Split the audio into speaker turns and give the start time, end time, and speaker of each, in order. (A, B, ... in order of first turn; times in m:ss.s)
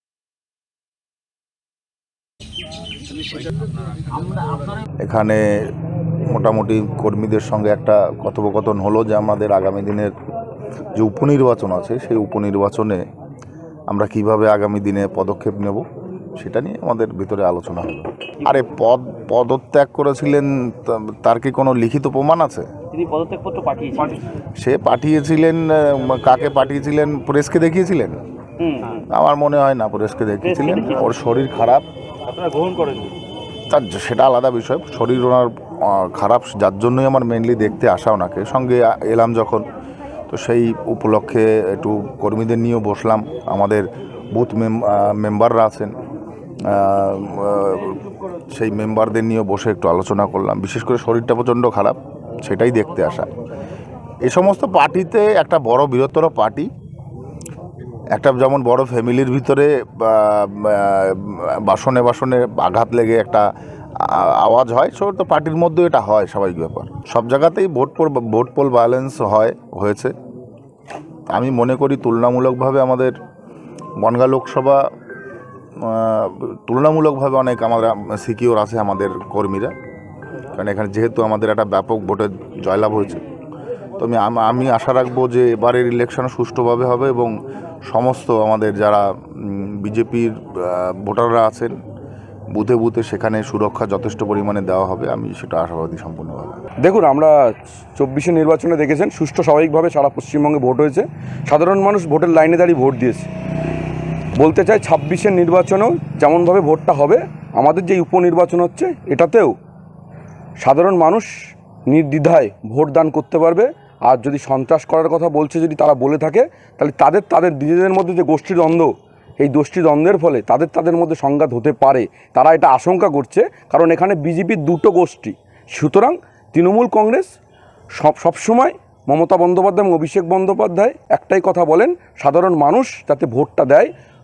0:04.3-0:04.6 A
0:05.0-0:05.4 B
0:06.2-0:10.1 B
0:10.9-0:13.0 B
0:13.9-0:15.8 B
0:16.4-0:22.7 B
0:22.9-0:24.2 A
0:24.6-0:28.2 B
0:28.6-0:29.0 A
0:29.1-0:31.8 B
0:30.4-0:31.2 A
0:32.3-0:33.1 A
0:33.7-0:39.6 B
0:40.3-0:45.9 B
0:46.6-0:48.0 B
0:48.5-0:53.3 B
0:54.2-0:56.7 B
0:58.1-1:03.5 B
1:04.0-1:10.1 B
1:11.3-1:13.1 B
1:14.0-1:14.8 B
1:15.8-1:19.7 B
1:20.5-1:23.2 B
1:24.0-1:27.3 B
1:27.9-1:31.7 B
1:32.5-1:36.6 B
1:36.8-1:37.3 C
1:38.0-1:43.3 C
1:44.4-1:49.5 C
1:50.6-1:51.3 C
1:51.9-2:07.3 C
2:08.0-2:13.9 C